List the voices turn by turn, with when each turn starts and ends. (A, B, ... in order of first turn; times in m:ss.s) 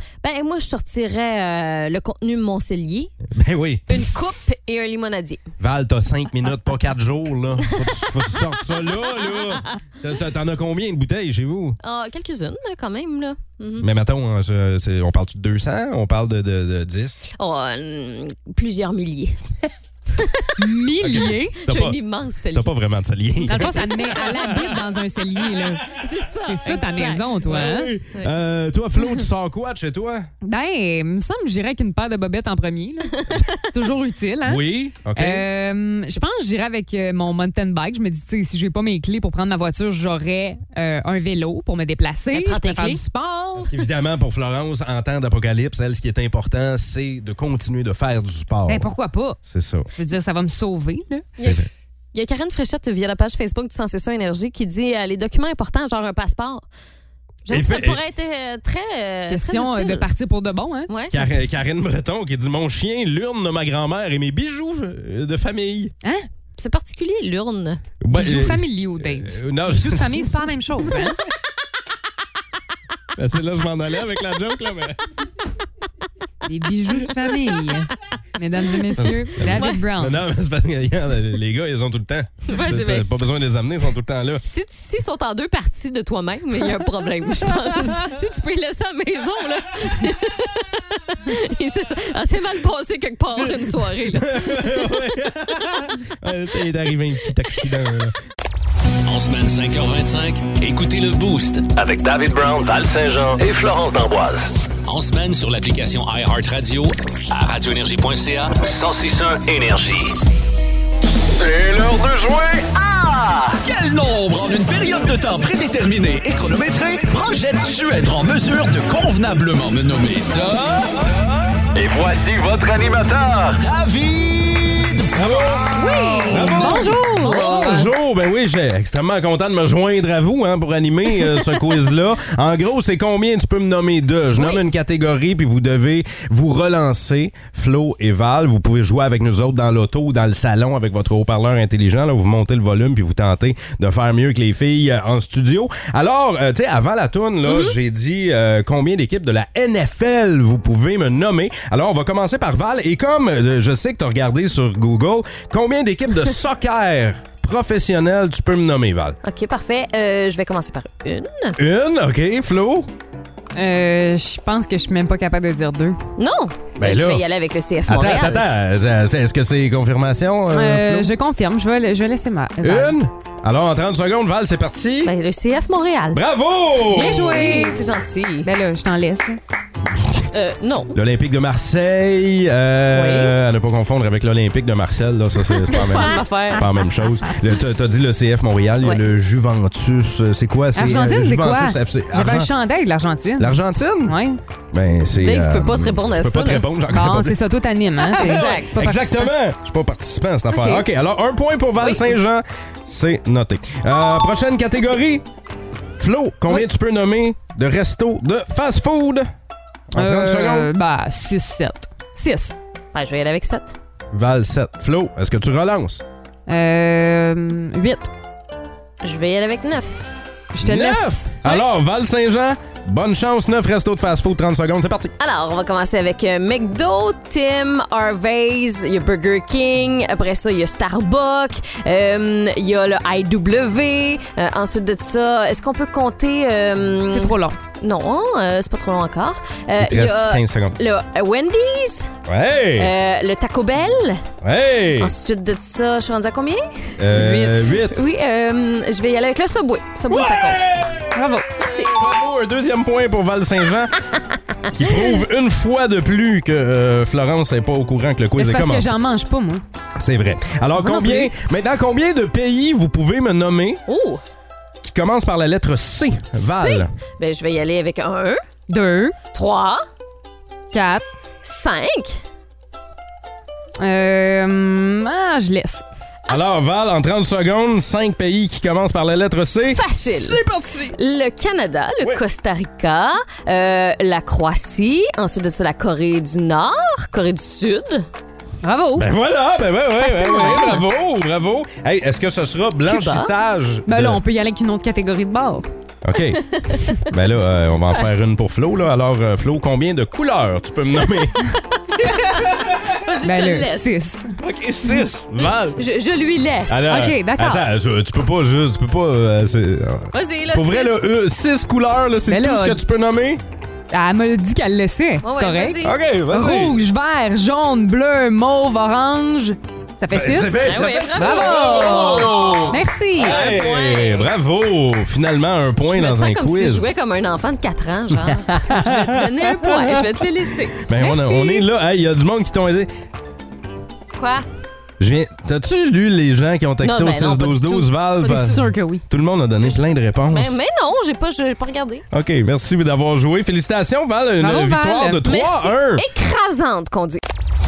0:00.2-0:03.2 A
0:03.3-0:04.0 B
0:03.9-0:05.5 A
0:05.6-0:11.8 B
0:07.7-0:08.0 A
0:11.8-0:13.9 A
0:13.8-0:17.2 B
0:17.3-0:19.4 A
0:20.2-0:20.4 A
0:20.6-0:21.6 C
0:21.0-0:22.0 B
0:21.6-0:22.7 A
0:22.5-0:24.7 B
0:23.4-0:25.9 C
0:23.5-0:23.8 A
0:26.0-0:28.4 A
0:26.4-0:27.9 C
0:26.7-0:30.3 B
0:30.4-0:33.2 C
0:33.2-0:33.4 A
0:33.7-0:34.6 C
0:34.4-0:35.5 B
0:35.2-0:43.7 C
0:42.3-0:43.0 A
0:43.6-0:48.9 B
0:48.7-0:49.4 C
0:49.4-0:49.9 B
0:49.9-0:51.3 C
0:51.4-0:51.7 B
0:52.1-0:56.6 A
0:57.4-1:00.1 A
0:57.5-0:58.0 B
0:59.3-1:00.9 C
1:00.9-1:01.3 A
1:01.1-1:05.9 B
1:06.6-1:07.8 A
1:08.0-1:10.4 B
1:08.2-1:11.2 C
1:13.2-1:15.0 B
1:16.5-1:20.2 C
1:19.0-1:24.4 B
1:19.4-1:19.8 A
1:22.5-1:23.1 A
1:24.4-1:34.8 A
1:33.4-1:38.1 B
1:39.1-1:41.7 D
1:41.8-1:44.5 E
1:44.9-1:48.6 D
1:48.6-1:50.2 E
1:51.4-1:53.6 E
1:53.6-2:01.0 F
2:01.7-2:03.6 E
2:03.6-2:05.1 F
2:05.2-2:05.7 B
2:05.7-2:07.9 C
2:05.8-2:07.9 A
2:06.3-2:39.2 B
2:27.5-2:27.8 A
2:39.2-2:41.6 A
2:41.6-2:42.9 B
2:43.6-2:46.0 C
2:46.2-2:48.4 A
2:46.8-2:47.2 B
2:47.9-2:51.1 B
2:50.5-2:53.0 C
2:52.6-2:55.1 B
2:55.0-2:56.2 A
2:56.1-2:58.0 B
2:56.8-2:58.5 A
2:57.0-2:57.8 C
2:58.4-2:59.4 C
3:00.0-3:00.2 B
3:00.3-3:00.9 A
3:00.9-3:12.5 B
3:02.9-3:03.3 A
3:05.7-3:06.7 A
3:10.8-3:14.4 C
3:13.4-3:14.2 B
3:14.7-3:17.4 B
3:15.2-3:16.6 A
3:16.9-3:19.3 C
3:18.0-3:25.2 B
3:18.2-3:18.8 A
3:20.5-3:20.8 A
3:21.8-3:22.2 A
3:26.0-3:29.3 B
3:29.9-3:30.7 B
3:30.0-3:32.5 C
3:32.9-3:33.8 A
3:34.1-3:36.0 B
3:36.5-3:38.1 C
3:39.0-3:40.2 A
3:40.5-3:41.6 C
3:40.6-3:45.1 B
3:45.2-4:02.1 A
3:57.1-3:57.6 C
3:59.8-4:00.8 B
4:02.3-4:02.9 B
4:02.8-4:04.2 A
4:04.4-4:05.1 B
4:05.0-4:10.9 A
4:07.0-4:08.0 B
4:07.1-4:07.8 C
4:10.1-4:14.0 B
4:11.1-4:11.6 C
4:11.6-4:11.9 A
4:14.7-4:18.9 B
4:14.9-4:15.2 A
4:18.4-4:19.6 C
4:20.0-4:23.8 B
4:20.8-4:21.3 C
4:23.9-4:24.2 A
4:24.8-4:27.0 B
4:26.4-4:28.4 A
4:28.7-4:29.2 C
4:29.3-4:29.8 A
4:30.7-4:31.0 C
4:31.4-4:32.2 A
4:33.8-4:35.8 C
4:36.3-4:41.0 B
4:39.7-4:48.1 A
4:48.6-4:49.1 C
4:49.0-4:54.2 B
4:49.9-4:50.8 A
4:52.8-4:53.3 A
4:53.9-4:55.7 C
4:56.0-4:56.4 B
4:56.3-4:56.8 A
4:57.0-5:01.4 B
5:02.0-5:02.7 B
5:02.1-5:02.4 A
5:02.9-5:04.0 A
5:03.2-5:04.3 C
5:04.4-5:05.8 B
5:05.8-5:07.1 A
5:06.7-5:13.4 B
5:06.9-5:07.7 C
5:10.1-5:11.1 A
5:12.3-5:12.8 C
5:13.9-5:23.4 C
5:15.2-5:16.0 A
5:15.8-5:16.8 B
5:20.1-5:26.9 B
5:20.5-5:24.3 A
5:25.9-5:30.8 A
5:28.3-5:30.1 B
5:30.7-5:32.9 B
5:31.0-5:31.7 C
5:34.2-5:34.4 A
5:35.0-5:40.5 B
5:36.8-5:38.6 A
5:38.2-5:39.0 C
5:40.3-5:42.0 A
5:42.1-5:46.0 B
5:44.4-5:45.2 C
5:45.2-5:47.2 A